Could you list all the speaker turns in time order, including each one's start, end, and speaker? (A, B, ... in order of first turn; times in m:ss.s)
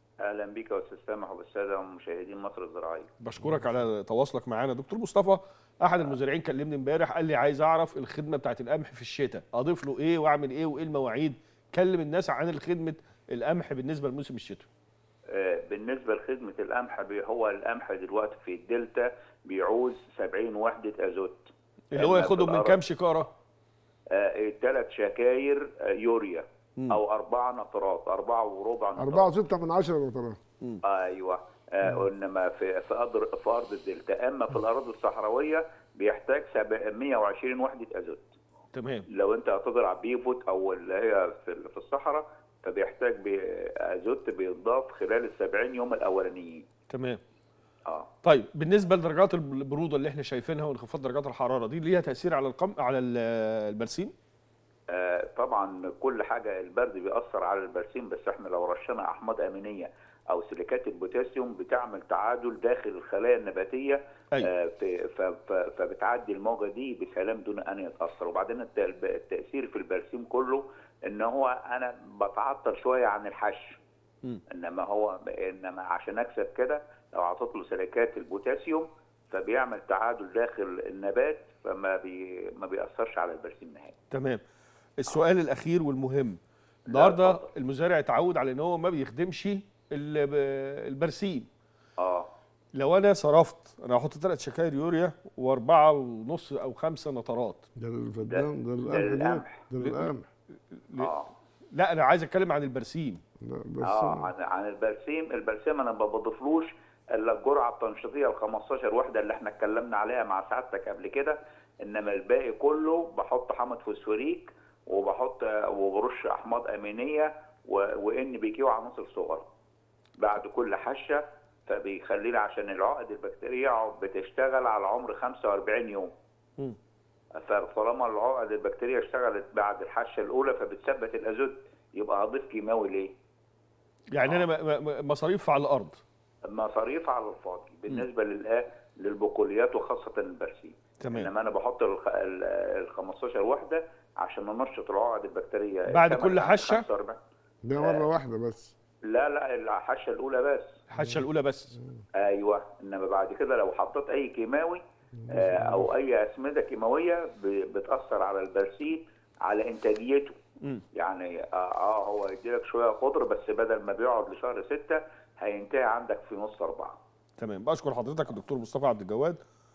0:00.2-0:03.1 A
0:03.2-0:14.7 B
0:15.3-0:22.8 A
0:21.9-0:23.3 B
0:24.1-0:29.4 A
0:29.0-0:30.4 C
0:30.8-0:38.3 A
0:38.7-0:39.1 B
0:39.1-0:46.6 A
0:46.9-0:47.2 B
0:48.2-0:54.1 B
0:54.9-1:13.8 A
1:14.5-1:24.0 A
1:24.1-1:24.4 B
1:25.0-1:31.5 B
1:26.9-1:27.5 A
1:32.0-1:32.3 A
1:32.7-1:37.6 B
1:37.8-1:40.3 C
1:38.3-1:39.6 A
1:39.8-1:41.2 B
1:41.0-1:41.3 A
1:41.7-1:43.2 B
1:43.4-1:44.3 C
1:43.8-1:59.5 A
2:00.2-2:06.1 A
2:07.4-2:13.1 A
2:14.1-2:16.0 B
2:16.5-2:27.2 A
2:21.0-2:21.3 B
2:25.9-2:26.8 B
2:27.6-2:28.7 C
2:27.7-2:28.1 A
2:29.1-2:30.8 A
2:30.9-2:31.7 B
2:31.0-2:31.2 C
2:31.7-2:32.0 C
2:32.2-2:40.4 A
2:35.2-2:35.9 C
2:40.9-2:47.0 A
2:47.4-2:49.4 B